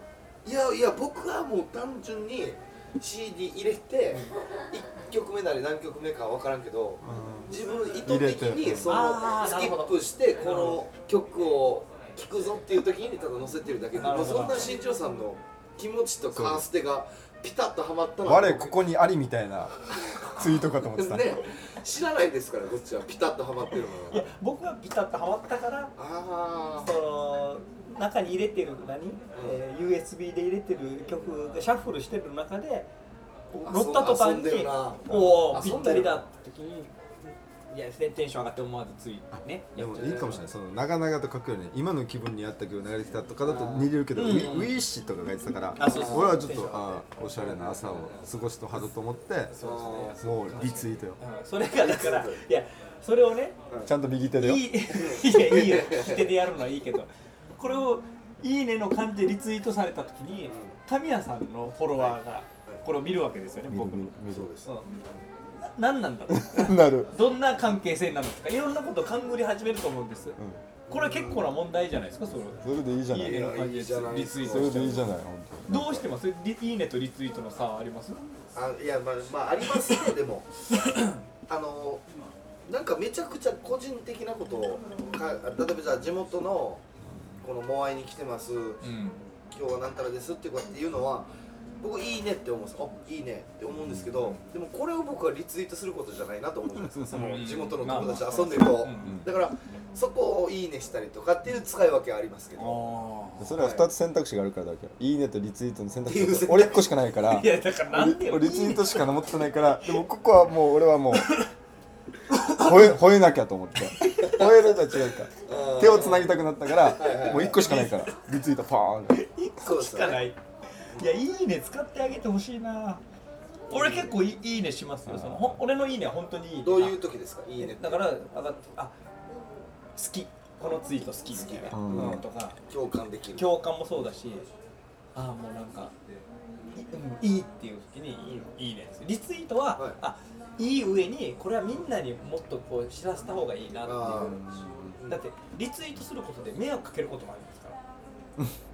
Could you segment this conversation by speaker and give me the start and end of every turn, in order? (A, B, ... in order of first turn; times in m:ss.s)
0:00.4-0:18.8 A
0:07.0-0:09.0 B
0:08.9-0:10.8 C
0:14.0-0:14.7 C
0:16.3-0:16.6 B
0:18.2-0:19.7 B
0:19.9-0:24.3 A
0:20.3-0:21.4 B
0:24.1-0:25.9 C
0:26.0-0:26.9 A
0:26.8-0:32.9 C
0:29.3-0:29.6 A
0:33.5-0:40.4 C
0:33.5-0:36.2 A
0:35.1-0:36.0 B
0:39.8-0:49.6 B
0:39.9-0:40.4 A
0:43.4-0:43.9 A
0:44.1-0:44.7 C
0:45.8-0:47.0 C
0:45.8-0:46.5 A
0:47.4-0:48.3 A
0:49.5-0:53.6 C
0:49.6-0:50.8 A
0:50.2-0:51.2 B
0:51.7-0:52.4 A
0:53.8-0:54.7 B
0:54.4-1:05.0 C
0:54.9-0:56.4 A
1:00.5-1:00.8 A
1:03.7-1:04.5 B
1:04.3-1:04.7 A
1:05.6-1:10.4 C
1:06.3-1:07.1 B
1:10.4-1:10.6 B
1:10.9-1:11.5 A
1:10.9-1:15.1 C
1:12.6-1:13.5 B
1:13.2-1:15.1 A
1:14.4-1:16.1 B
1:15.7-1:18.2 C
1:18.5-1:20.5 A
1:20.7-1:21.2 C
1:21.5-1:22.0 A
1:22.7-1:26.8 A
1:27.4-1:28.8 A
1:28.8-1:29.2 C
1:29.5-1:43.0 A
1:33.8-1:34.1 B
1:36.8-1:37.4 B
1:37.1-1:39.2 C
1:42.6-1:43.6 C
1:43.4-1:51.4 B
1:43.6-1:43.9 A
1:46.1-1:47.0 A
1:47.2-1:49.4 C
1:51.2-1:51.5 C
1:52.3-1:52.9 C
1:52.4-1:59.2 B
1:53.9-1:54.5 C
1:55.4-1:57.7 A
1:57.3-1:58.2 C
1:59.1-2:03.0 C
1:59.6-2:00.3 A
2:03.7-2:04.2 A
2:03.7-2:07.0 C
2:05.1-2:05.6 B
2:06.6-2:08.1 A
2:07.6-2:08.9 C
2:10.0-2:12.6 C
2:11.3-2:13.5 A
2:11.7-2:12.2 B
2:13.4-2:14.5 C
2:15.1-2:15.9 C
2:16.8-2:24.4 C
2:19.8-2:20.0 A
2:23.8-2:25.2 A
2:24.2-2:25.0 B
2:25.1-2:27.8 C